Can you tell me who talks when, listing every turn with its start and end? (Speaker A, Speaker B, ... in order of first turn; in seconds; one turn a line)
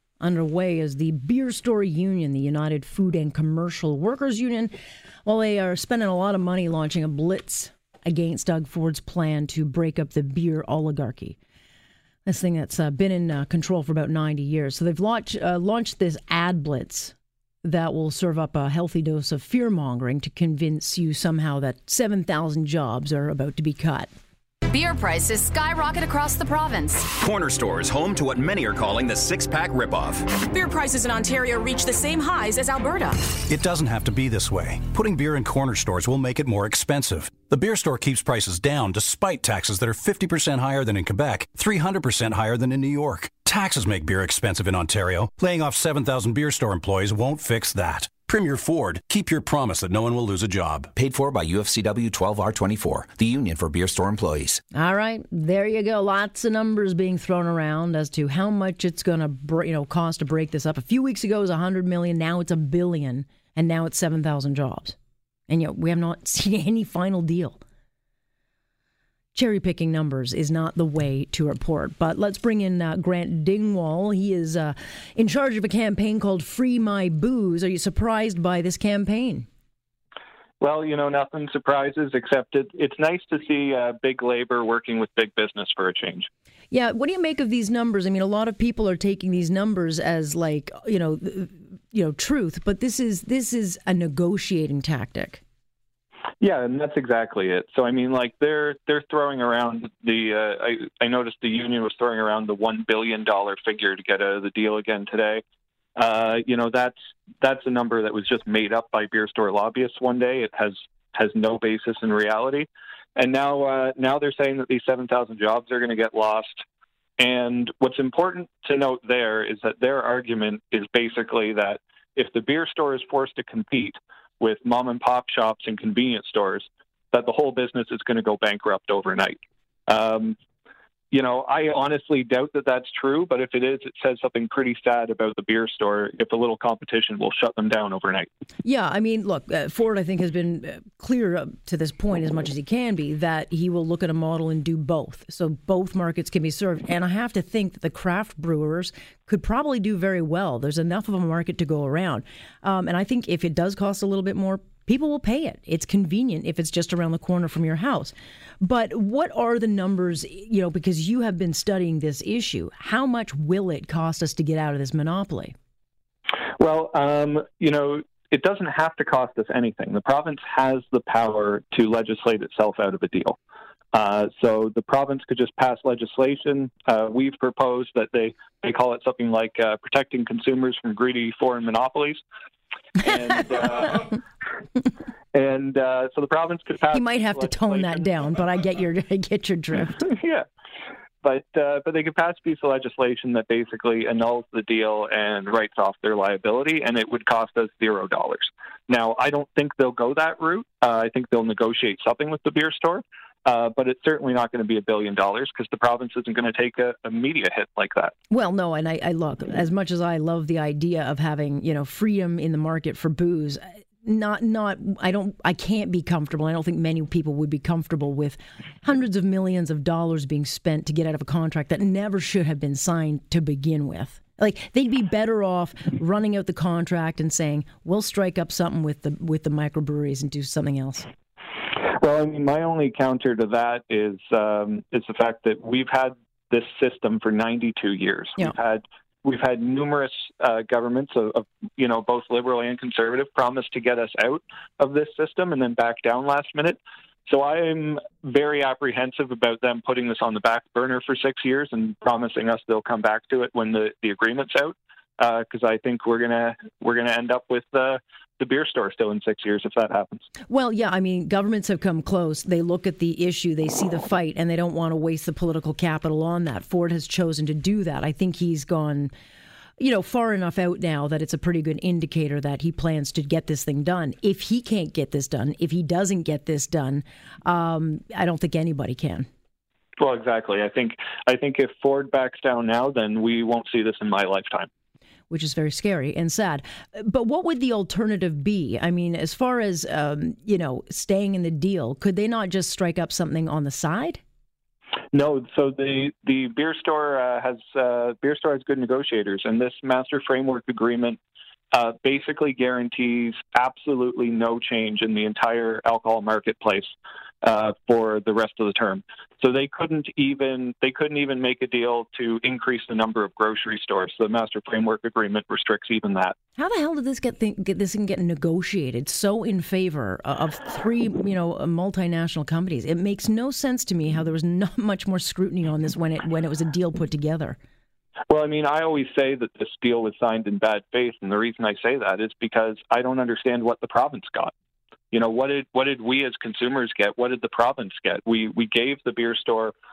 Speaker A: 0.2-4.7
Speaker A: 5.2-11.4
Speaker A: 12.3-24.1
Speaker B: 24.7-27.1
Speaker C: 27.1-30.3
Speaker D: 30.4-33.1
Speaker B: 32.6-33.2
Speaker E: 33.5-50.9
Speaker F: 50.9-54.6
Speaker A: 54.7-65.0
Speaker A: 65.5-67.6
Speaker A: 69.3-79.5
Speaker G: 80.6-86.3
Speaker A: 86.7-95.4
Speaker G: 96.4-105.4
Speaker G: 106.0-116.6
Speaker G: 117.2-130.4
Speaker G: 131.1-138.3
Speaker A: 138.6-165.6
Speaker G: 166.6-173.4
Speaker G: 173.9-182.2
Speaker G: 183.0-184.2
Speaker G: 185.3-188.0
Speaker A: 186.9-190.1
Speaker G: 190.1-190.4
Speaker G: 191.2-208.1
Speaker A: 208.3-231.1
Speaker G: 231.8-260.3
Speaker A: 260.5-269.1
Speaker A: 269.8-279.3
Speaker G: 280.0-284.7
Speaker A: 285.3-294.2
Speaker G: 295.1-301.2
Speaker G: 301.7-306.9
Speaker G: 307.4-316.4
Speaker A: 316.6-327.6
Speaker G: 328.3-334.5
Speaker G: 335.1-339.7